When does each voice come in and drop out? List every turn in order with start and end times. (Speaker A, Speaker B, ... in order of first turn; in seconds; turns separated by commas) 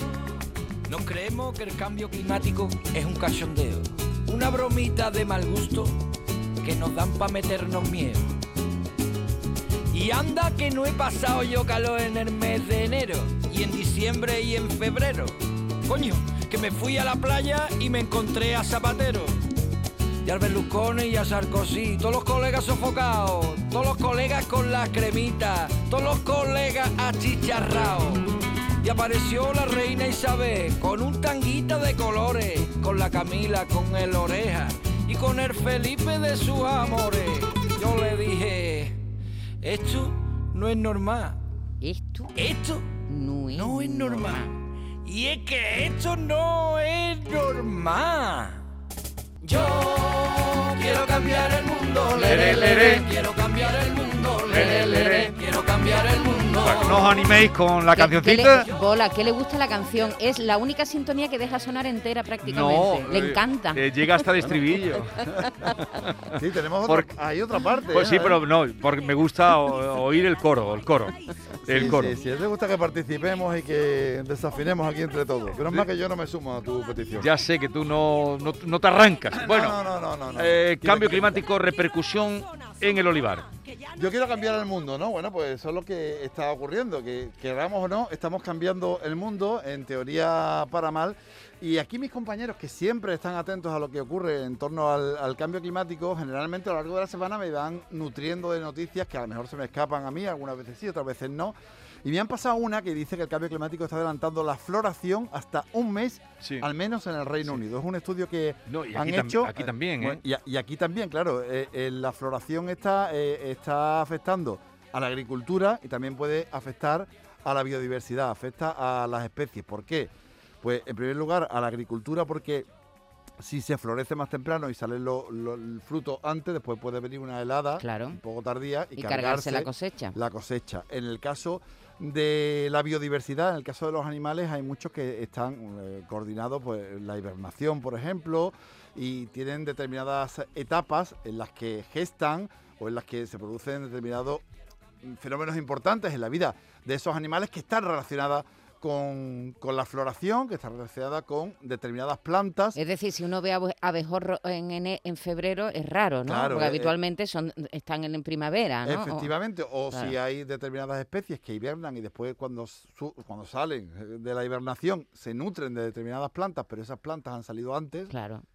Speaker A: 0.9-5.9, Speaker A: 6.6-8.3, Speaker A: 9.9-15.3, Speaker A: 15.9-19.3, Speaker A: 20.2-28.2, Speaker A: 28.8-39.0, Speaker A: 39.6-41.4, Speaker B: 41.8-42.4, Speaker A: 42.4-42.9, Speaker B: 43.1-44.5, Speaker A: 43.5-44.4, Speaker A: 45.0-48.6, Speaker A: 49.5-57.1, Speaker C: 52.2-53.0, Speaker B: 52.2-53.1, Speaker C: 54.5-55.4, Speaker C: 56.5-58.7, Speaker B: 57.9-64.5, Speaker C: 62.4-67.1, Speaker D: 66.4-68.4, Speaker C: 67.9-72.2, Speaker D: 71.7-77.3, Speaker C: 77.2-79.8, Speaker D: 79.3-81.3, Speaker C: 80.4-83.5, Speaker D: 83.9-120.1, Speaker C: 106.4-106.7, Speaker C: 108.7-110.2, Speaker D: 120.6-122.7, Speaker D: 123.4-144.4, Speaker B: 127.8-128.2, Speaker B: 129.0-130.2, Speaker D: 145.0-152.8, Speaker B: 152.8-160.2, Speaker D: 156.3-157.0, Speaker D: 158.8-168.1, Speaker B: 168.1-168.4